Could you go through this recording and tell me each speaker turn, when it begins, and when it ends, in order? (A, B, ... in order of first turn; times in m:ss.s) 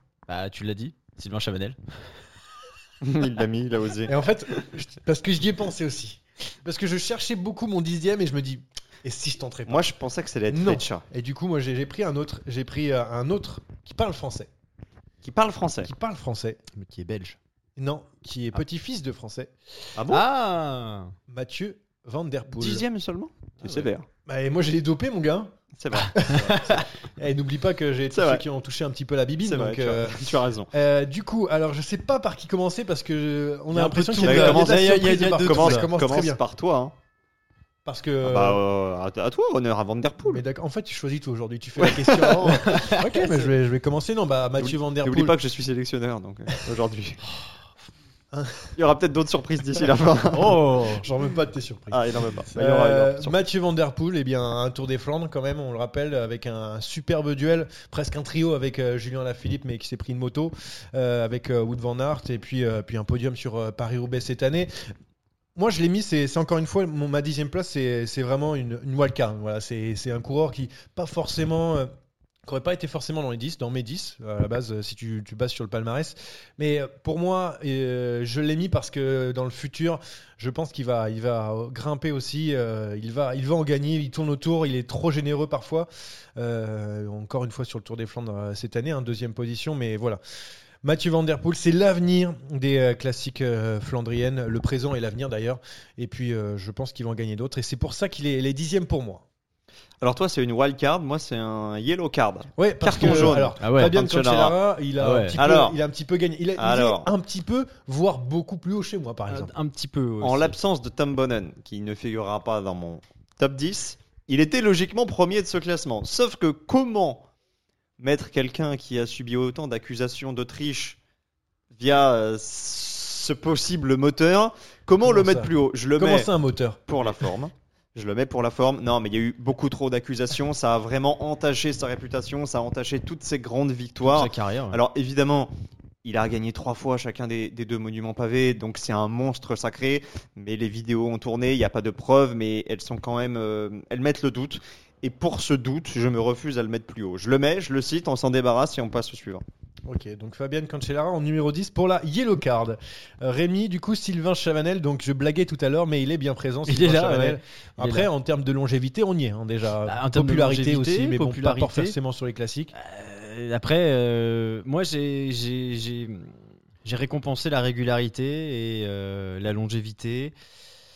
0:00.3-0:01.8 A
0:03.0-0:04.1 B
0:04.1-0:09.9 C
0:09.7-0:11.0 B
0:10.5-0:14.5 C
0:15.2-0:15.9 B
0:15.8-0:16.6 C
0:16.7-0:17.4 A
0:17.8-0:19.5 C
0:20.0-0:20.2 B
0:20.1-0:21.2 A
0:21.3-0:22.8 C
0:22.5-0:24.1 B
0:23.6-0:23.9 A
0:24.3-0:36.4 C
0:25.8-0:26.8 B
0:26.5-0:26.8 A
0:28.1-0:28.4 B
0:29.4-0:30.7 B
0:33.7-0:35.9 A
0:34.2-0:36.9 B
0:37.8-0:38.6 C
0:38.2-0:40.4 B
0:40.2-0:45.4 C
0:41.8-0:42.8 B
0:42.6-0:43.4 A
0:44.6-0:47.2 B
0:48.3-0:48.8 C
0:48.8-0:50.6 B
0:50.3-0:51.0 A
0:50.4-1:04.7 C
0:51.9-0:53.4 B
1:05.6-1:11.9 C
1:12.4-1:30.2 C
1:30.8-1:39.2 C
1:40.0-1:44.6 B
1:42.6-1:49.5 C
1:43.6-1:43.9 A
1:45.0-1:45.4 A
1:45.4-1:45.8 B
1:46.6-1:47.1 B
1:49.3-1:50.6 A
1:50.2-1:57.3 B
1:58.0-2:01.0 B
2:01.7-2:06.3 B
2:05.0-2:07.2 C
2:06.9-2:15.5 B
2:14.0-2:14.8 A
2:16.0-2:29.4 B
2:29.8-2:42.7 C
2:36.7-2:38.1 A
2:39.9-2:42.0 A
2:42.7-2:50.3 A